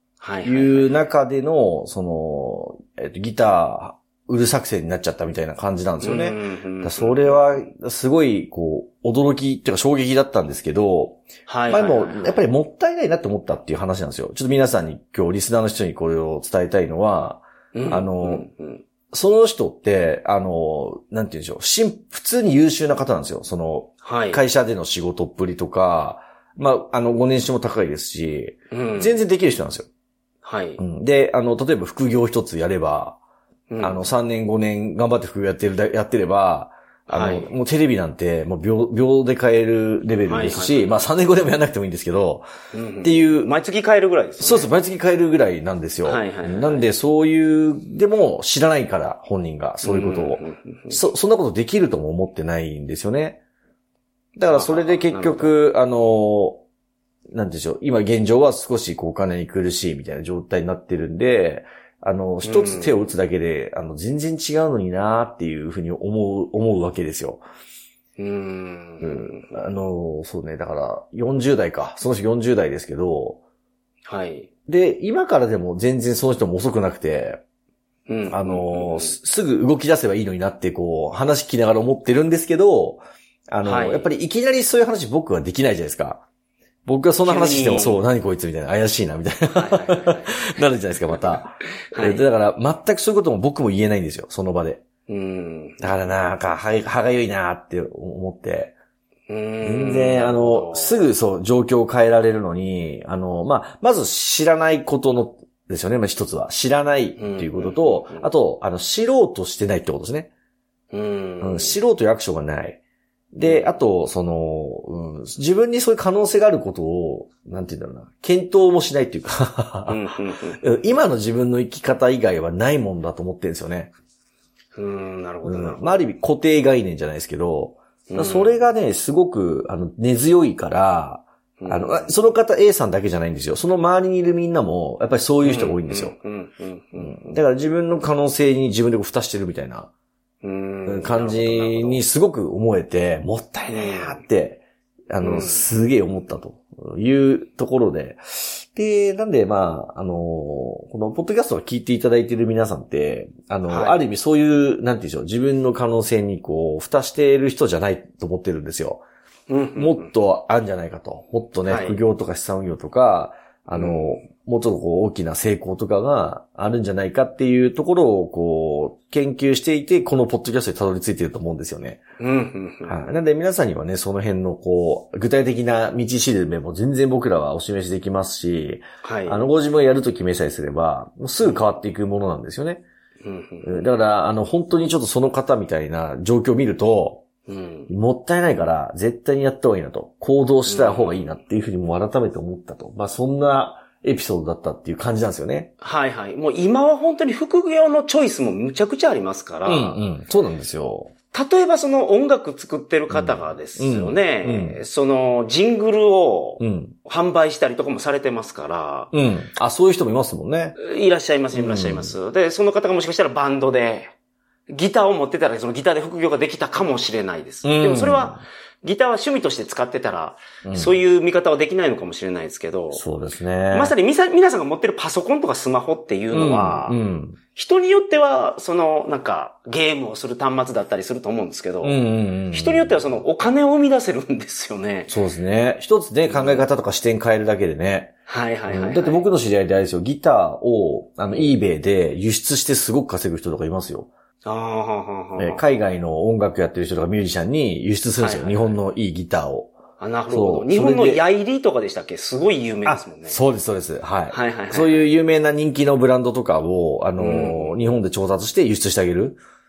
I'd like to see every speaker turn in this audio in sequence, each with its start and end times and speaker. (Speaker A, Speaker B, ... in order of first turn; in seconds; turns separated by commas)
Speaker A: 0.2-0.9, Speaker B: 0.4-18.5, Speaker A: 6.0-7.4, Speaker A: 11.5-12.4, Speaker A: 17.7-18.8, Speaker B: 19.1-29.9, Speaker A: 24.0-24.4, Speaker A: 28.7-29.2, Speaker A: 30.4-30.8, Speaker B: 30.8-33.2, Speaker A: 33.7-34.1, Speaker B: 33.8-42.5, Speaker A: 37.1-37.5, Speaker A: 40.2-41.0, Speaker A: 42.7-44.7, Speaker B: 43.0-43.5, Speaker B: 44.4-53.4, Speaker A: 46.0-46.9, Speaker A: 49.8-51.0, Speaker B: 54.4-56.6, Speaker A: 54.5-55.5, Speaker B: 57.3-67.4, Speaker A: 62.4-63.1, Speaker A: 68.2-69.6, Speaker B: 69.0-73.4, Speaker A: 74.0-74.5, Speaker B: 74.7-77.4, Speaker A: 78.1-79.2, Speaker B: 78.3-86.2, Speaker A: 83.6-84.1, Speaker B: 86.9-94.8, Speaker A: 87.2-88.0, Speaker A: 89.5-90.5, Speaker A: 91.9-92.2, Speaker A: 95.1-95.9, Speaker B: 95.8-98.7, Speaker A: 99.3-101.1, Speaker B: 99.6-110.3, Speaker A: 107.2-108.3, Speaker A: 110.9-111.8, Speaker B: 111.4-112.8, Speaker B: 113.3-120.0, Speaker A: 113.4-113.8, Speaker A: 119.9-120.6, Speaker B: 120.6-123.9, Speaker A: 124.8-126.0, Speaker B: 125.4-136.2, Speaker A: 128.1-128.6, Speaker A: 131.6-132.2, Speaker A: 135.4-137.2, Speaker B: 136.9-139.9, Speaker A: 140.4-142.0, Speaker B: 140.9-159.1, Speaker A: 143.7-144.2, Speaker A: 145.2-145.7, Speaker A: 153.7-154.0, Speaker A: 159.5-160.1, Speaker B: 159.8-172.0, Speaker A: 161.7-162.0, Speaker A: 163.7-164.2, Speaker A: 172.2-173.1, Speaker B: 172.9-182.8, Speaker A: 179.0-179.5, Speaker A: 181.4-181.7, Speaker A: 183.2-183.8, Speaker B: 183.6-187.2, Speaker A: 187.5-187.9, Speaker B: 187.9-195.7, Speaker A: 190.6-191.4, Speaker A: 195.8-200.0, Speaker B: 199.6-201.1, Speaker A: 201.3-209.1, Speaker B: 203.1-204.8, Speaker B: 206.6-206.9, Speaker B: 209.1-210.8, Speaker A: 210.8-214.1, Speaker B: 211.5-212.2, Speaker A: 214.7-223.0, Speaker B: 217.6-218.4, Speaker B: 220.6-221.0, Speaker B: 222.9-223.9, Speaker A: 223.7-227.0, Speaker B: 226.3-227.4, Speaker A: 227.5-235.1, Speaker B: 231.8-233.0, Speaker B: 235.1-238.1, Speaker A: 236.3-236.7, Speaker A: 238.3-239.3, Speaker B: 238.7-244.1, Speaker A: 244.4-245.7, Speaker B: 245.4-249.8, Speaker A: 248.2-248.8, Speaker A: 250.0-253.4, Speaker B: 250.3-251.2, Speaker B: 252.9-259.4, Speaker A: 254.3-255.1, Speaker A: 257.2-257.8